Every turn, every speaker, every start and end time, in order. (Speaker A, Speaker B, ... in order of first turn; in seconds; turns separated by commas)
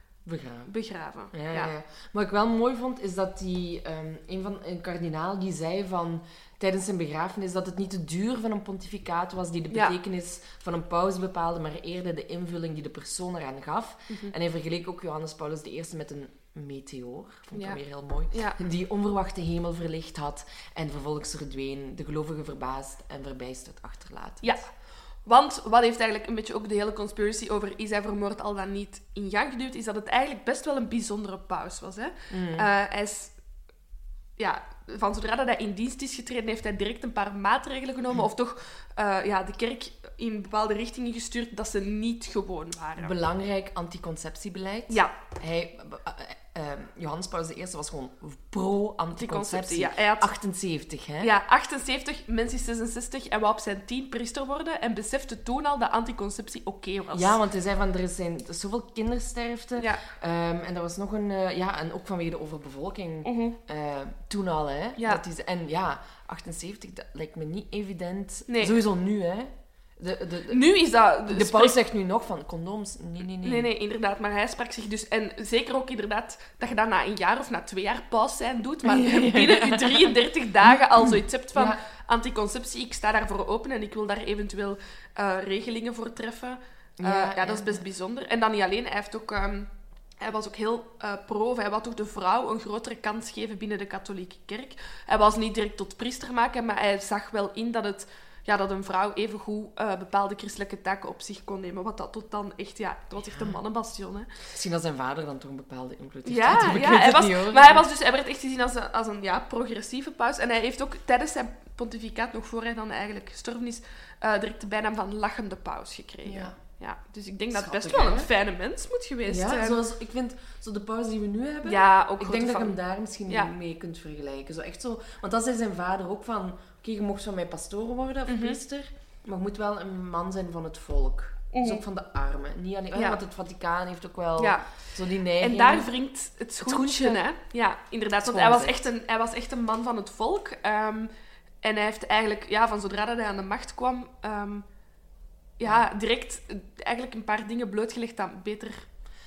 Speaker A: 0.3-0.7, Speaker B: 0.7-1.7, Speaker A: 1.3-24.6, Speaker B: 9.7-10.0, Speaker B: 17.6-17.8, Speaker B: 18.3-18.6, Speaker B: 24.4-24.7, Speaker B: 25.3-33.4, Speaker A: 32.3-32.7, Speaker B: 34.4-43.1, Speaker A: 43.0-51.3, Speaker B: 49.1-50.3, Speaker B: 51.2-57.4, Speaker A: 57.1-70.6, Speaker B: 59.8-60.0, Speaker B: 63.2-63.6, Speaker B: 68.5-68.8, Speaker B: 70.5-71.8, Speaker A: 71.3-73.7, Speaker B: 73.4-104.4, Speaker A: 78.8-81.8, Speaker A: 87.0-87.8, Speaker A: 103.3-103.6, Speaker A: 104.5-107.9, Speaker B: 106.2-119.8, Speaker A: 116.2-116.6, Speaker A: 117.5-118.3, Speaker A: 119.3-135.9, Speaker B: 121.7-122.8, Speaker B: 128.3-128.6, Speaker B: 131.5-131.8, Speaker B: 132.9-133.2, Speaker B: 134.4-134.7, Speaker B: 135.4-141.1, Speaker A: 136.6-137.2, Speaker A: 138.2-138.9, Speaker B: 141.6-144.7, Speaker B: 145.6-148.8